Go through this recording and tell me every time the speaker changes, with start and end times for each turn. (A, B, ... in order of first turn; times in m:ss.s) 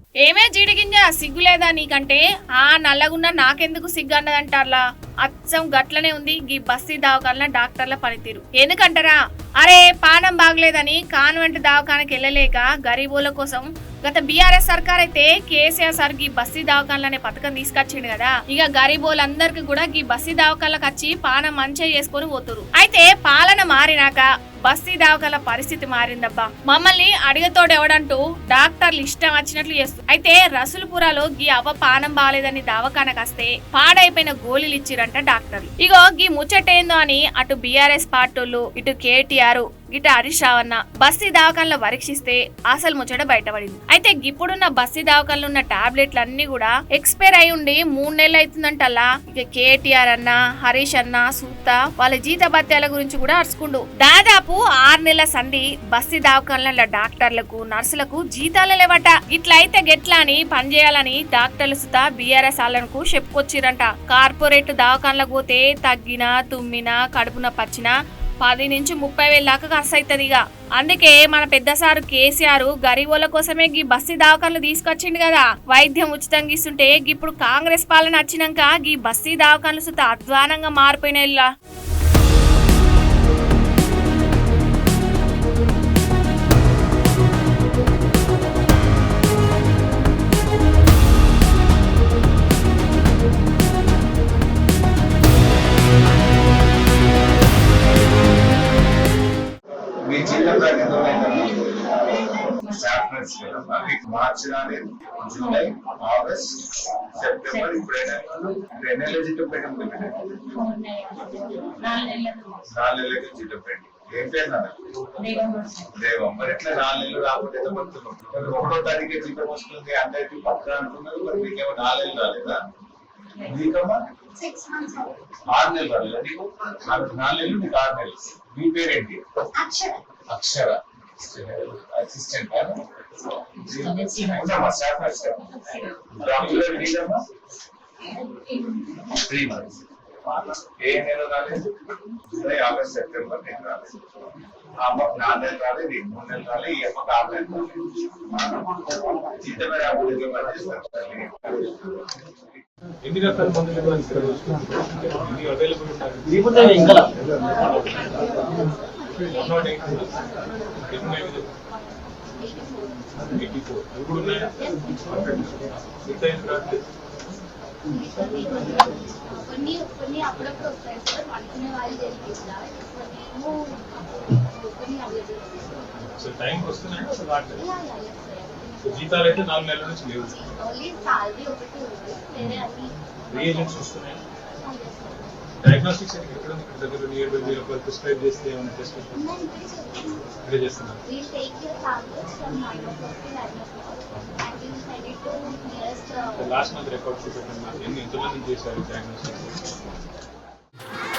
0:00.2-1:21.5 A
1:40.0-1:50.7 B
1:50.8-1:52.5 C
1:52.6-1:54.8 B
1:55.3-1:55.7 C
1:55.9-2:02.6 B
2:03.4-2:04.0 B
2:04.4-2:05.1 C
2:05.5-2:09.2 B
2:09.6-2:10.0 C
2:10.3-2:12.8 B
2:13.5-2:17.2 B
2:19.0-2:19.8 B
2:20.3-2:21.7 B
2:22.3-2:24.0 B
2:24.8-2:31.9 B
2:33.0-2:38.4 D
2:37.0-2:39.8 C
2:39.2-2:40.2 D
2:40.8-2:41.5 D
2:42.4-2:43.2 C
2:43.2-2:46.8 D
2:44.6-2:44.9 C
2:47.8-2:55.9 C
2:56.0-2:57.7 D
2:57.5-2:59.6 C
2:58.8-3:00.4 D
3:00.3-3:03.8 C
3:03.3-3:04.2 D
3:04.6-3:05.4 C
3:05.6-3:09.4 D
3:09.1-3:10.3 C
3:10.4-3:11.0 D
3:11.0-3:16.6 C
3:16.3-3:19.8 D